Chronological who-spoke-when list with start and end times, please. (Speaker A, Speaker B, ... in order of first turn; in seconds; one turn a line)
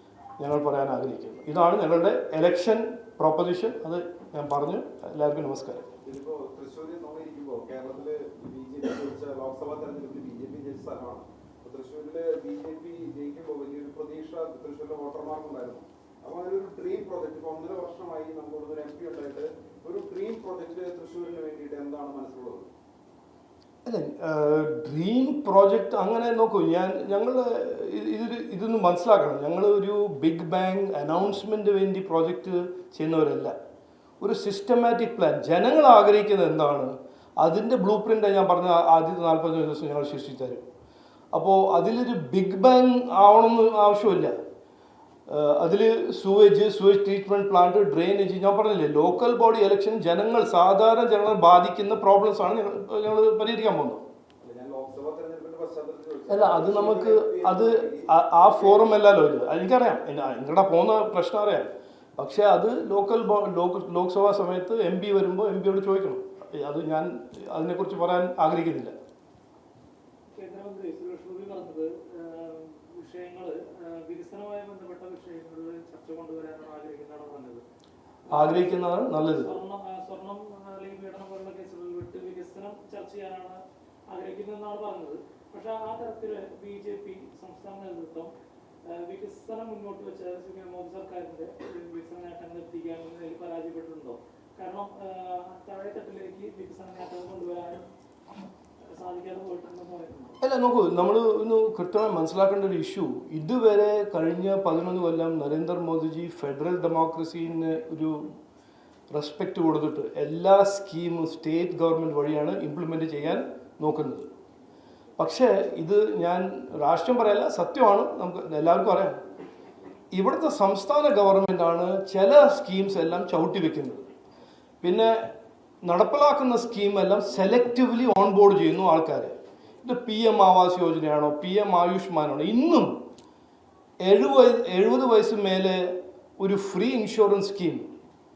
Speaker A: 0.4-5.9
Speaker B: 6.0-22.7
Speaker A: 23.9-33.5
Speaker A: 34.2-40.6
Speaker A: 41.3-44.3
Speaker A: 45.3-54.0
Speaker B: 54.4-58.8
Speaker A: 56.3-68.9
Speaker C: 70.3-77.6
Speaker A: 78.3-79.5
Speaker C: 78.3-83.6
Speaker C: 84.1-88.3
Speaker C: 88.9-97.8
Speaker C: 98.9-100.4
Speaker A: 100.4-108.2
Speaker A: 109.1-114.3
Speaker A: 115.2-119.2
Speaker A: 120.1-124.1
Speaker A: 124.8-125.3
Speaker A: 125.8-133.0
Speaker A: 134.0-137.9